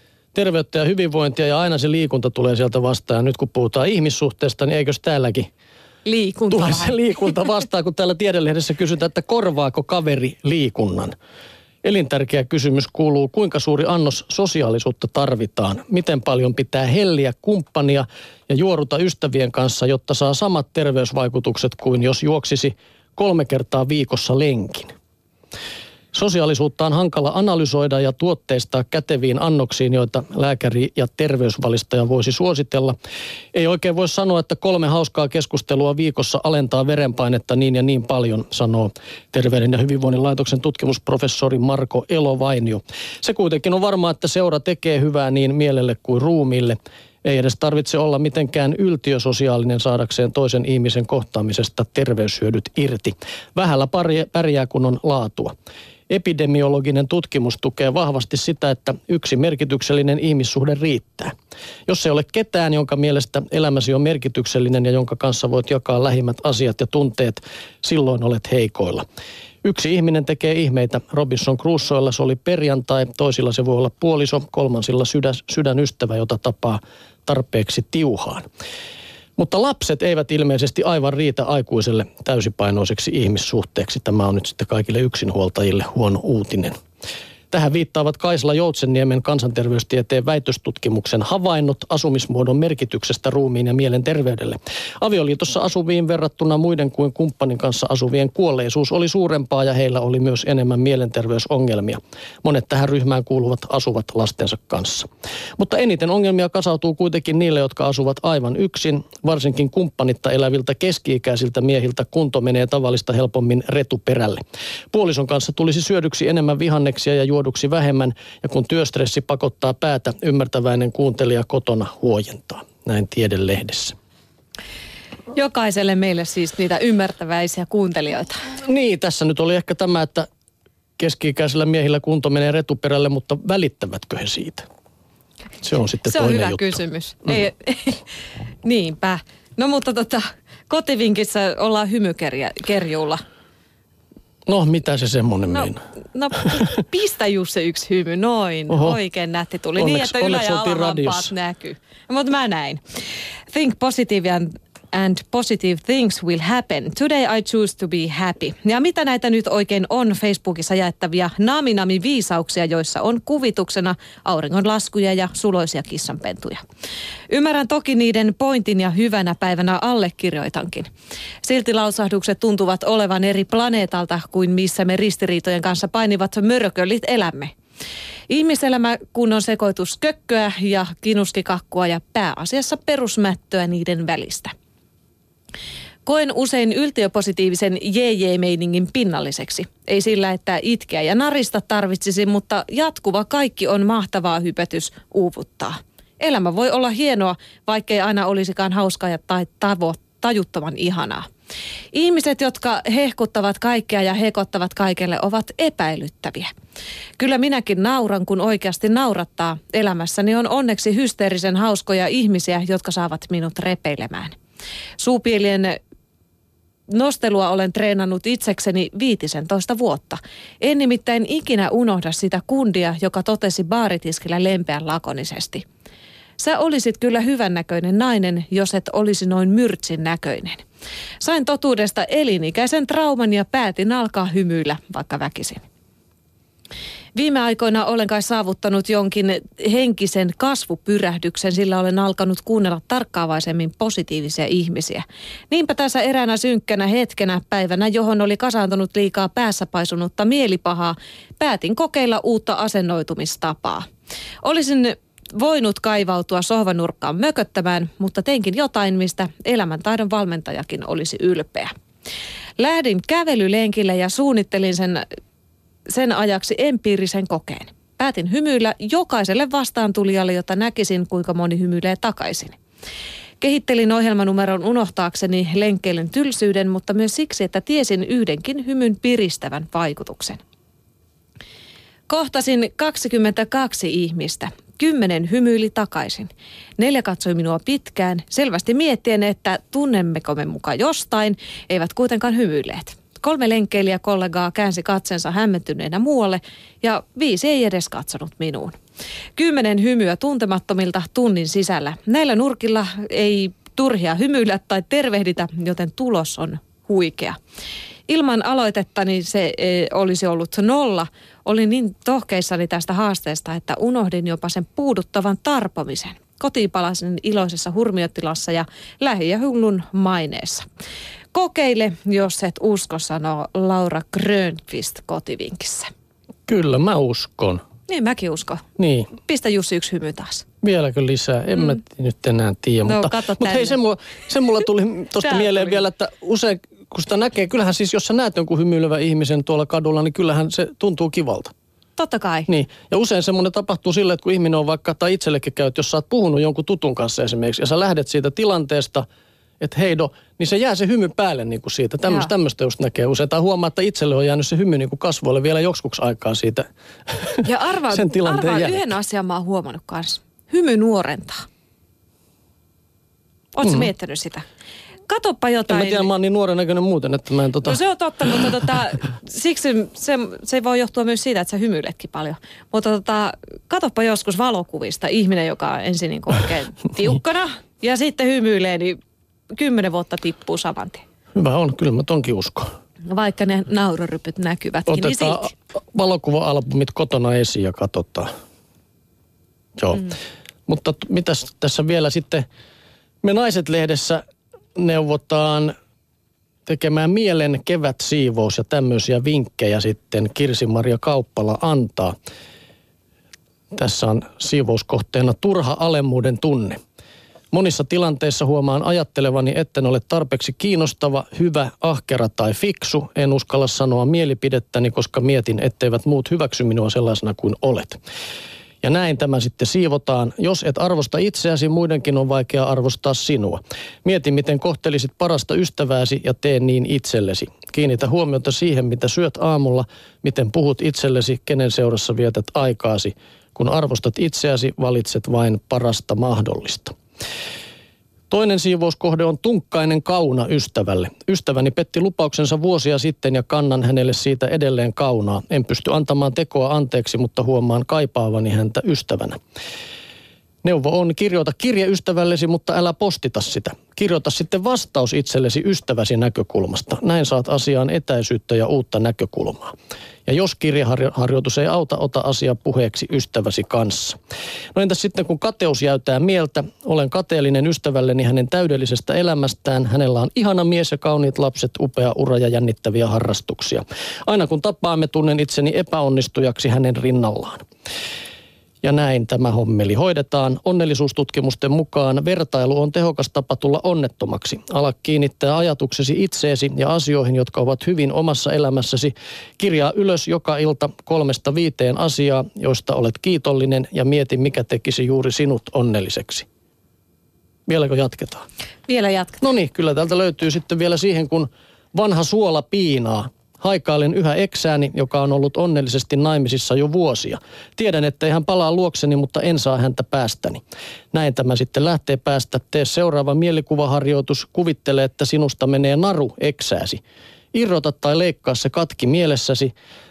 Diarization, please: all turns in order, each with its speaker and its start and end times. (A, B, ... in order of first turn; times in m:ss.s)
0:00.3-0:05.5 A
0:06.0-0:07.0 B
0:06.5-0:11.1 A
0:11.8-0:24.9 A
0:26.1-0:33.0 A
0:33.5-0:55.5 A
0:56.1-1:01.3 A
1:01.9-1:09.0 A
1:09.6-1:18.4 A
1:19.4-1:26.8 A
1:27.5-2:04.0 A
2:05.3-2:08.5 B
2:08.6-2:10.3 A
2:11.0-2:14.7 A
2:15.6-2:16.8 A
2:16.0-2:18.0 B
2:18.6-2:23.2 B
2:24.5-2:25.8 A
2:25.5-2:32.8 B
2:28.7-2:29.0 A
2:29.8-2:31.3 A
2:33.5-2:46.6 B
2:47.3-2:50.9 B
2:51.4-2:57.5 B
2:58.3-3:04.5 B
3:06.1-3:21.3 B
3:21.9-3:26.5 B
3:27.2-3:34.4 B
3:35.0-3:35.8 B
3:36.9-3:45.7 B
3:46.4-3:50.6 B
3:51.2-3:55.6 B
3:57.2-4:13.9 B
4:14.4-4:21.7 B
4:22.6-4:25.0 B
4:25.9-4:32.6 B
4:33.4-4:40.4 B
4:42.1-4:58.8 B
4:59.4-5:07.4 B
5:08.1-5:20.7 B
5:21.3-5:25.9 B
5:26.5-5:27.6 A
5:27.9-5:28.6 B
5:28.8-5:29.1 A
5:29.1-5:30.4 B
5:30.6-5:41.5 A
5:32.8-5:33.8 B
5:35.2-5:35.8 B
5:42.0-5:42.5 B
5:42.5-5:49.0 A
5:49.6-5:58.8 A
5:52.1-5:52.3 B
5:57.4-6:01.4 B
6:03.5-6:04.5 B
6:05.1-6:06.1 B
6:05.7-6:07.8 A
6:07.6-6:19.0 B
6:19.5-6:21.0 B
6:21.4-6:22.7 A
6:23.1-6:25.5 B
6:24.9-6:28.3 A
6:29.8-6:30.2 A
6:30.7-6:32.4 A
6:33.2-6:34.2 A
6:34.8-6:35.7 A
6:36.7-6:42.2 A
6:43.7-6:46.8 A
6:47.5-6:58.0 A
6:58.8-7:16.9 A
7:18.3-7:29.4 A
7:30.6-7:39.7 A
7:40.3-7:44.2 A
7:44.8-7:57.6 A
7:58.8-8:16.5 A
8:17.7-8:18.4 A
8:18.9-8:19.4 B
8:19.4-8:30.6 A
8:31.1-8:37.0 A
8:37.5-8:39.7 A